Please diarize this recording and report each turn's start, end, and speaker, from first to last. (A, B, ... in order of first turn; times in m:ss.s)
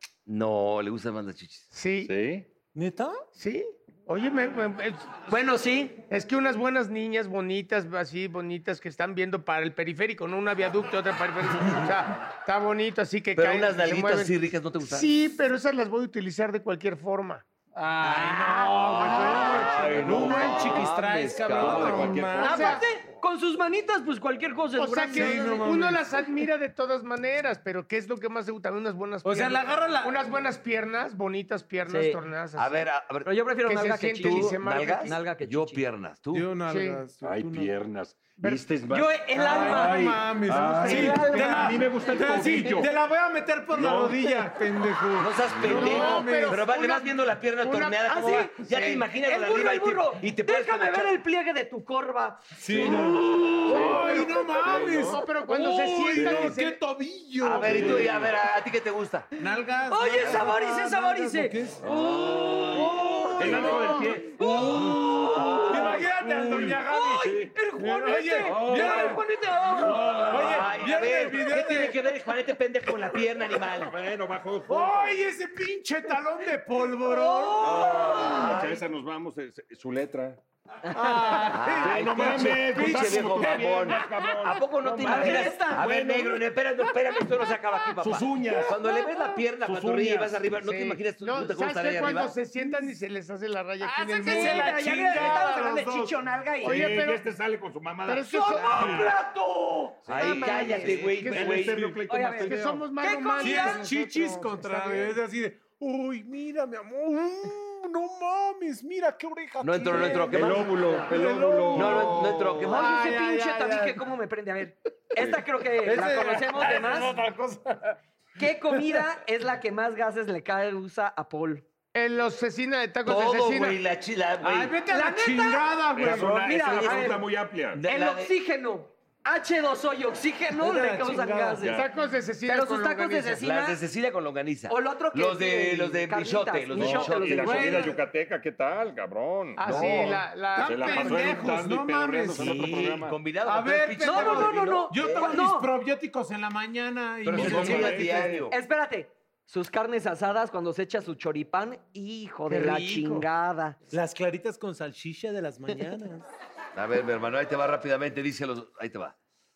0:00.2-0:01.7 A
0:01.7-0:02.1 B
0:02.0-0:02.4 C
0:02.7-0:03.2 D
0:03.4-0:05.2 B
0:05.3-0:06.0 E
0:06.1-0:17.4 B
0:13.3-0:15.1 A
0:17.8-0:22.8 D
0:18.0-0:22.1 A
0:18.5-0:20.7 C
0:20.0-0:20.8 B
0:21.5-0:22.7 C
0:21.6-0:22.8 B
0:22.4-0:25.6 E
0:24.8-0:32.9 B
0:25.1-0:26.0 D
0:29.2-0:30.2 D
0:31.9-0:32.2 E
0:32.6-0:33.3 A
0:33.2-0:35.8 E
0:33.6-0:35.1 B
0:34.2-0:36.5 A
0:36.3-0:37.7 D
0:36.7-0:37.0 B
0:37.2-0:42.9 C
0:38.4-0:38.7 B
0:38.9-0:40.1 E
0:39.3-0:46.6 D
0:40.8-0:42.6 E
0:43.7-0:44.4 C
0:45.2-0:51.2 A
0:45.7-0:48.5 B
0:48.0-0:52.4 E
0:52.6-0:58.1 D
0:52.7-0:55.2 C
0:53.7-0:56.8 B
0:56.1-0:56.6 C
0:57.4-0:59.3 A
0:57.6-0:58.3 C
0:59.4-1:01.8 D
0:59.9-1:01.6 E
1:01.8-1:02.8 C
1:01.8-1:06.0 A
1:02.2-1:03.7 E
1:02.9-1:03.6 D
1:03.4-1:07.5 C
1:03.4-1:04.2 B
1:04.4-1:05.9 E
1:04.6-1:12.0 D
1:06.8-1:10.2 E
1:08.4-1:09.2 C
1:09.7-1:10.8 C
1:10.3-1:13.9 A
1:13.8-1:15.1 C
1:14.7-1:17.8 D
1:17.0-1:18.5 E
1:17.6-1:20.4 C
1:18.0-1:18.8 A
1:20.9-1:21.5 E
1:20.9-1:24.3 D
1:21.5-1:32.4 A
1:21.8-1:26.4 C
1:25.0-1:25.9 E
1:28.0-1:28.8 C
1:28.4-1:29.0 D
1:29.6-1:30.4 C
1:30.6-1:35.4 B
1:32.6-1:32.8 D
1:33.8-1:36.8 E
1:34.0-1:36.2 D
1:36.6-1:37.2 B
1:36.6-1:39.2 C
1:38.0-1:39.0 B
1:38.3-1:41.0 E
1:40.0-1:42.0 A
1:40.0-1:42.8 C
1:40.2-1:41.7 B
1:42.1-1:43.8 E
1:42.4-1:45.2 B
1:43.4-1:54.0 D
1:49.6-1:50.8 A
1:50.0-1:52.7 C
1:51.7-1:53.1 A
1:52.6-1:57.1 E
1:55.2-1:57.9 D
1:58.4-2:01.6 E
1:58.7-1:59.0 D
2:01.9-2:03.8 B
2:03.0-2:04.8 A
2:04.4-2:06.4 D
2:04.9-2:07.2 E
2:05.9-2:07.8 C
2:06.0-2:08.3 A
2:07.9-2:11.8 E
2:10.5-2:11.7 D
2:11.6-2:11.9 C
2:11.7-2:13.4 B
2:12.5-2:13.8 E
2:13.4-2:17.9 A
2:14.7-2:17.9 E
2:16.7-2:19.8 C
2:17.4-2:17.9 D
2:19.6-2:21.4 B
2:19.6-2:20.2 A
2:20.5-2:22.8 D
2:20.6-2:23.2 C
2:22.3-2:25.4 A
2:23.4-2:28.4 D
2:24.0-2:25.7 E
2:27.2-2:28.6 A
2:27.3-2:28.4 C
2:28.5-2:33.8 E
2:32.5-2:33.3 B
2:33.9-2:36.2 D
2:36.7-2:39.1 A